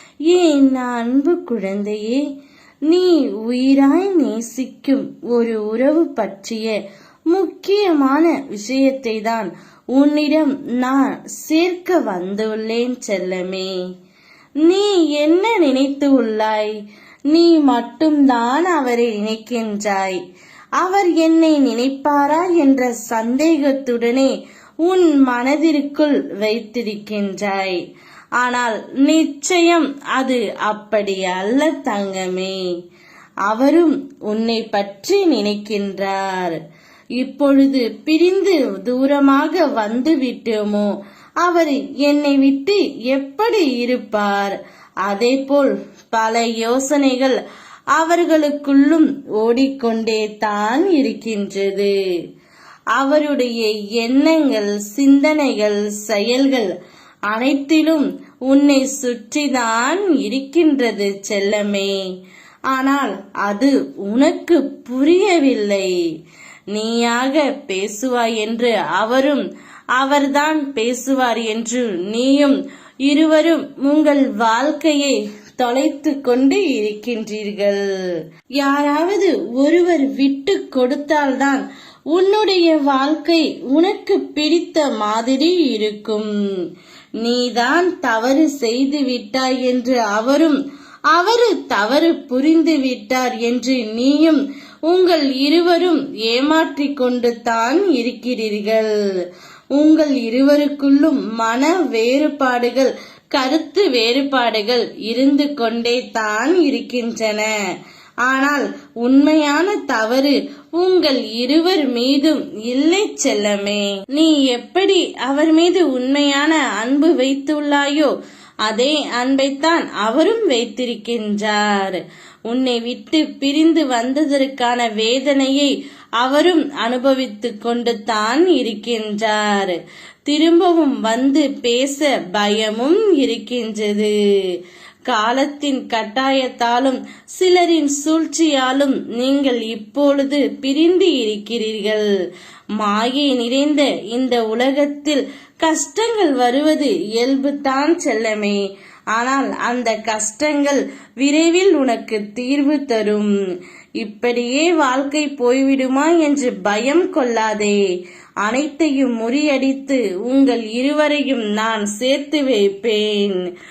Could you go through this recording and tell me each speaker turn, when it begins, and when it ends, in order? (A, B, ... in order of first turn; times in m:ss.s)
0:00.3-0:02.2 A
0:02.9-0:06.8 A
0:07.3-0:13.7 A
0:14.6-0:16.7 A
0:17.3-0:20.2 A
0:20.8-0:27.8 A
0:28.4-0:32.6 A
0:33.4-0:36.6 A
0:37.2-0:40.9 A
0:41.4-0:47.4 A
0:47.9-0:51.9 A
0:52.9-0:56.7 A
0:57.3-1:02.0 A
1:02.7-1:05.9 A
1:06.7-1:09.4 A
1:10.0-1:17.8 A
1:18.6-1:26.3 A
1:27.2-1:30.6 A
1:31.1-1:38.9 A
1:39.7-1:47.5 A
1:48.2-1:58.1 A
1:58.6-2:14.1 A
2:15.1-2:22.1 A
2:22.8-2:28.6 A
2:29.1-2:33.3 A
2:34.0-2:37.8 A
2:38.4-2:43.4 A